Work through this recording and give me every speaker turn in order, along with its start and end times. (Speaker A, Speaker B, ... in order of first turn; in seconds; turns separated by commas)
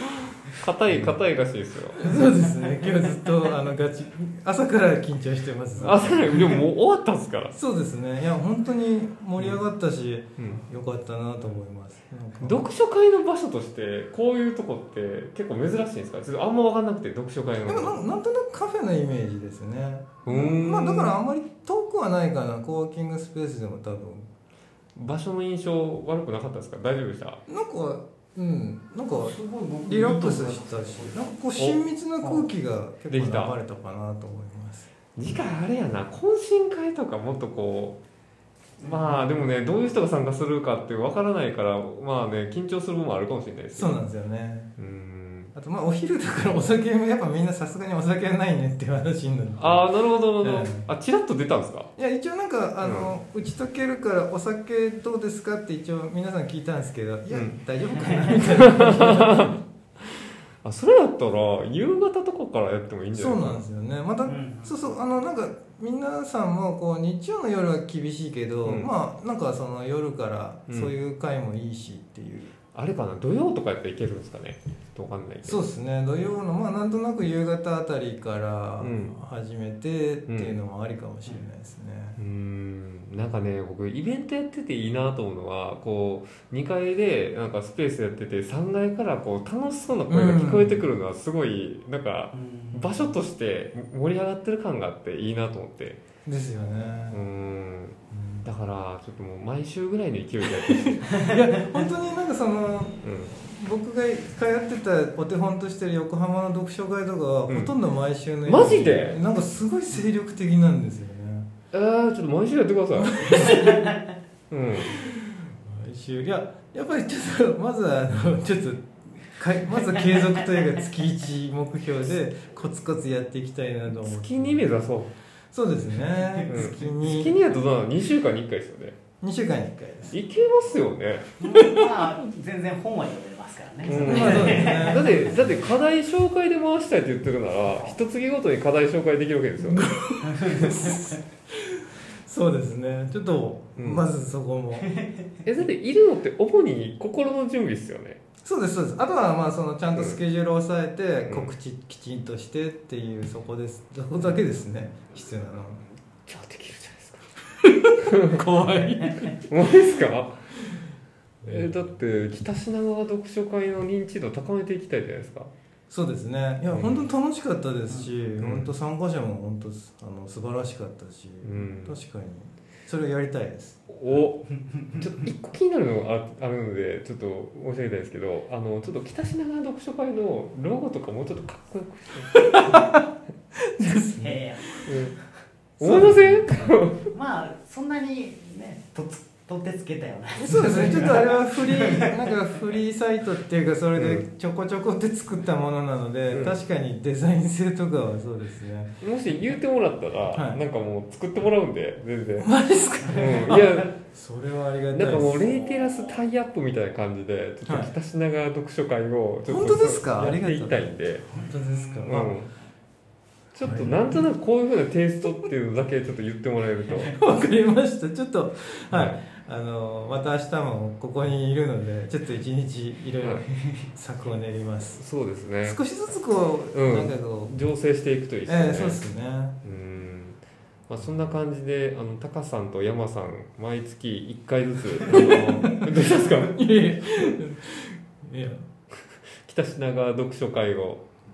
Speaker A: 0.6-2.0, Speaker B: 0.9-1.2, Speaker B: 2.0-6.6, Speaker A: 5.8-7.5, Speaker B: 7.5-12.6, Speaker A: 10.4-10.6, Speaker A: 12.4-18.0, Speaker B: 17.6-24.3, Speaker A: 20.2-21.2, Speaker A: 24.9-27.4, Speaker B: 27.5-34.9, Speaker C: 29.1-31.3, Speaker C: 32.2-32.5, Speaker A: 33.1-33.5, Speaker A: 35.1-38.0, Speaker C: 38.8-39.4, Speaker A: 38.8-44.0, Speaker B: 43.7-44.7, Speaker A: 44.8-45.5, Speaker B: 45.5-50.9, Speaker A: 49.5-51.9, Speaker B: 52.0-59.6, Speaker A: 52.8-53.1, Speaker A: 57.3-57.6, Speaker C: 58.0-58.3, Speaker A: 58.5-59.5, Speaker A: 60.1-63.6, Speaker B: 63.1-72.5, Speaker C: 64.2-64.8, Speaker A: 68.6-68.9, Speaker A: 72.7-75.7, Speaker B: 75.4-82.2, Speaker A: 78.8-79.2, Speaker A: 80.3-80.5, Speaker A: 82.2-96.0, Speaker B: 90.1-90.9, Speaker C: 92.3-93.1, Speaker B: 96.2-97.2, Speaker A: 97.1-101.0, Speaker B: 98.1-98.5, Speaker B: 100.7-111.5, Speaker A: 103.0-103.3, Speaker A: 107.5-107.7, Speaker A: 108.4-109.2, Speaker A: 111.7-113.7, Speaker B: 113.0-113.8, Speaker A: 114.5-114.9, Speaker B: 115.0-124.7, Speaker A: 123.9-125.1, Speaker B: 125.5-127.4, Speaker C: 126.2-126.4, Speaker A: 126.5-129.0, Speaker B: 129.2-130.2, Speaker A: 130.1-131.3, Speaker C: 131.4-135.7, Speaker B: 131.6-131.9, Speaker A: 133.8-140.0, Speaker B: 133.9-135.1, Speaker B: 139.6-144.9, Speaker C: 140.2-141.1, Speaker A: 143.8-144.0, Speaker A: 145.4-148.2, Speaker B: 148.4-155.8, Speaker A: 149.9-150.2, Speaker A: 151.3-151.5, Speaker A: 156.3-157.2, Speaker A: 158.0-160.4, Speaker B: 158.3-158.9, Speaker C: 159.0-159.3, Speaker A: 161.4-165.5, Speaker B: 165.9-173.8, Speaker A: 166.7-167.1, Speaker A: 168.4-168.7, Speaker A: 171.4-172.0, Speaker A: 173.9-182.3, Speaker C: 174.8-175.1, Speaker B: 182.3-183.0, Speaker B: 183.7-184.9, Speaker C: 184.1-185.1, Speaker A: 184.9-185.2, Speaker A: 185.8-187.1, Speaker B: 185.8-186.4, Speaker C: 187.1-192.3, Speaker B: 190.3-198.9, Speaker A: 193.9-194.2, Speaker A: 196.3-196.6, Speaker A: 199.0-202.5, Speaker B: 200.3-200.6, Speaker B: 202.4-205.7, Speaker A: 203.1-203.9, Speaker A: 204.9-211.2, Speaker B: 207.7-207.9, Speaker B: 209.5-212.3, Speaker C: 211.4-212.2, Speaker A: 212.1-212.5, Speaker A: 213.5-217.2, Speaker B: 213.6-214.3, Speaker B: 217.1-225.0, Speaker A: 218.9-219.2, Speaker A: 223.2-223.4, Speaker C: 223.6-223.9, Speaker A: 225.0-225.8, Speaker B: 225.6-227.6, Speaker A: 226.7-229.0, Speaker B: 228.4-229.6, Speaker A: 229.6-237.2, Speaker B: 235.1-238.6, Speaker A: 239.4-241.0